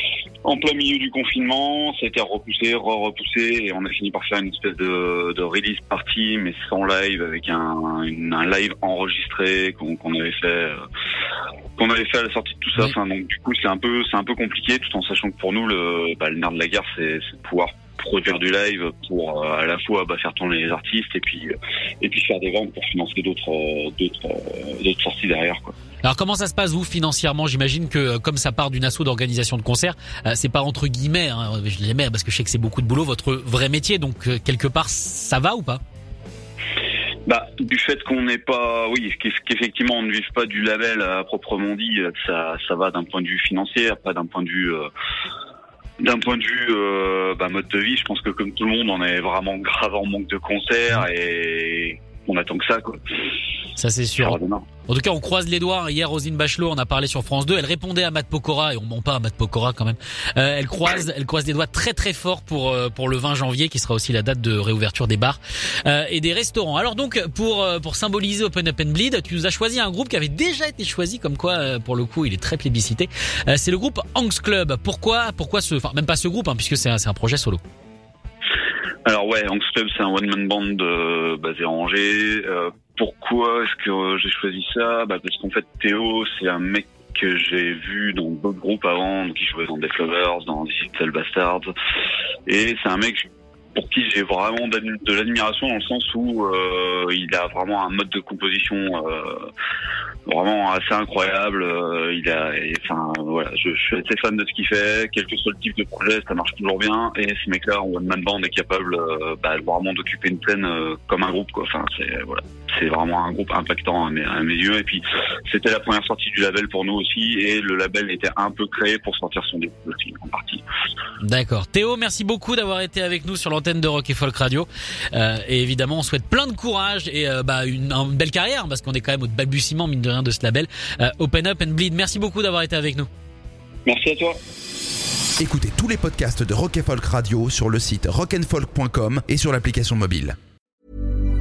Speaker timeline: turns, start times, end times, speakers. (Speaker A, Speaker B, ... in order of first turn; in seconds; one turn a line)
Speaker A: 0.4-10.8
Speaker A: 11.8-25.7
Speaker B: 26.0-35.8
Speaker A: 37.3-44.9
Speaker A: 46.0-53.0
Speaker B: 53.8-77.6
Speaker A: 54.2-54.6
Speaker A: 79.0-91.7
Speaker A: 92.5-99.5
Speaker A: 100.3-120.6
Speaker B: 121.2-133.1
Speaker A: 133.8-134.4
Speaker C: 135.4-140.4